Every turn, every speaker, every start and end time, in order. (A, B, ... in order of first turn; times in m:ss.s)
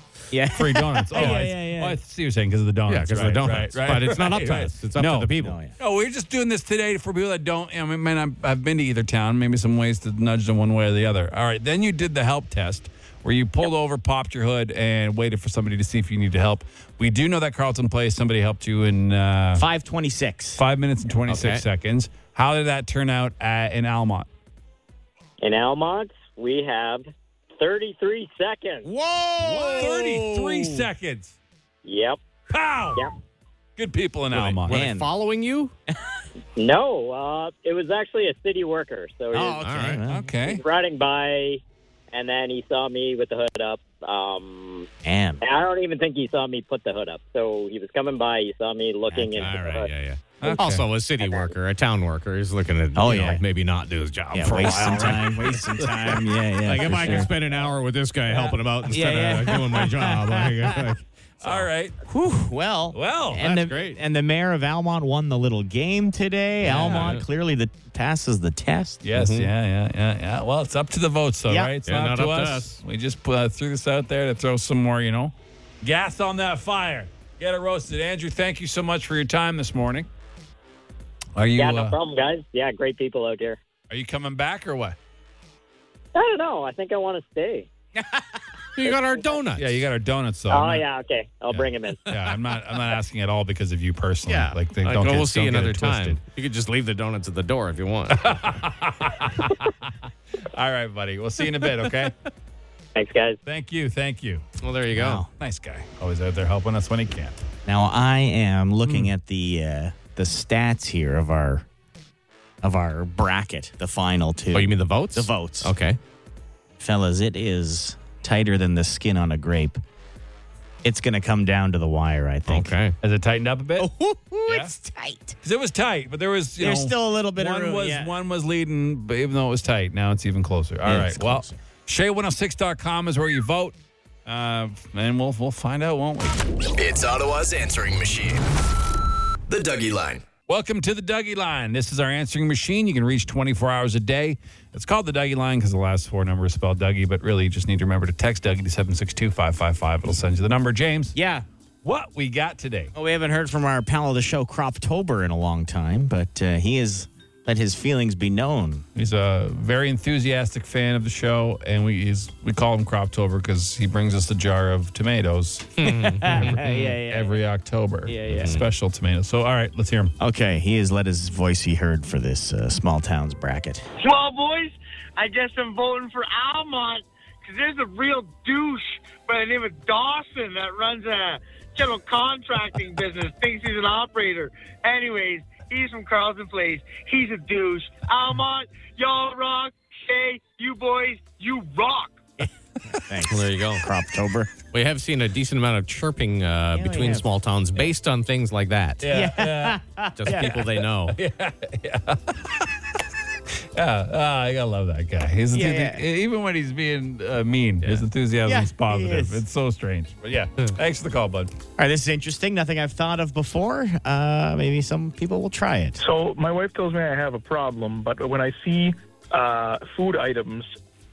0:00.3-0:02.0 A
0:00.5-0:19.7 B
0:01.2-0:01.4 C
0:02.9-0:05.6 C
0:05.4-0:05.7 A
0:19.6-0:20.6 A
0:20.6-0:24.3 B
0:21.3-0:21.6 C
0:25.4-0:28.9 D
0:28.8-0:30.9 A
0:29.4-0:31.4 B
0:31.8-0:32.2 D
0:32.5-0:33.0 B
0:33.8-0:34.8 B
0:34.3-0:35.7 C
0:34.7-0:35.1 A
0:36.6-0:39.6 D
0:39.3-0:40.3 A
0:39.6-0:40.0 C
0:40.1-0:40.6 B
0:40.4-0:41.6 D
0:42.1-0:44.9 D
0:45.0-0:45.4 A
0:45.4-0:49.9 D
0:49.2-0:49.6 A
0:49.3-0:55.4 C
0:50.4-0:50.9 B
0:51.2-0:51.5 D
0:53.0-0:53.4 A
0:54.3-0:57.3 A
0:54.5-0:56.2 B
0:56.6-1:01.7 C
0:56.9-0:57.3 B
0:58.3-1:00.7 A
1:01.4-1:02.0 B
1:02.1-1:09.0 A
1:02.9-1:03.4 B
1:03.4-1:04.0 C
1:06.6-1:07.2 C
1:09.0-1:20.1 B
1:09.1-1:09.5 C
1:11.9-1:12.8 C
1:21.4-1:22.0 B
1:21.6-1:23.6 D
1:23.9-1:25.0 B
1:26.2-1:27.7 D
1:28.0-1:28.2 A
1:28.8-1:29.8 C
1:29.6-1:30.8 B
1:30.5-1:32.1 D
1:31.5-1:36.2 B
1:34.3-1:38.4 C
1:38.1-1:39.9 B
1:40.5-1:42.2 B
1:43.0-1:43.4 D
1:43.4-1:44.4 B
1:44.6-1:45.2 C
1:44.9-1:45.3 A
1:45.4-1:47.4 B
1:47.7-1:51.6 A
1:52.6-1:55.7 A
1:54.5-1:56.0 C
1:56.8-1:59.8 A
2:00.8-2:02.8 A
2:02.5-2:03.0 C
2:03.0-2:03.9 B
2:03.8-2:05.4 A
2:04.5-2:04.7 B
2:05.4-2:16.4 B
2:06.6-2:08.1 A
2:10.8-2:11.6 A
2:16.8-2:18.4 E
2:19.5-2:20.3 E
2:20.5-2:31.2 B
2:31.2-2:31.4 A
2:31.8-2:32.9 B
2:32.9-2:38.8 A
2:39.0-2:50.1 B
2:45.8-2:46.6 C
2:45.9-2:47.4 A
2:48.1-2:48.5 A
2:48.3-2:48.6 C
2:50.2-2:53.9 A
2:54.0-3:12.2 F
3:12.4-3:14.5 A
3:13.3-3:13.9 C
3:14.7-3:19.0 C
3:16.7-3:17.3 A
3:19.0-3:22.8 B
3:19.1-3:20.5 A
3:20.2-3:21.2 C
3:23.7-3:31.6 B
3:25.5-3:26.0 A
3:28.5-3:29.4 A
3:31.8-3:36.0 A
3:36.0-3:40.7 G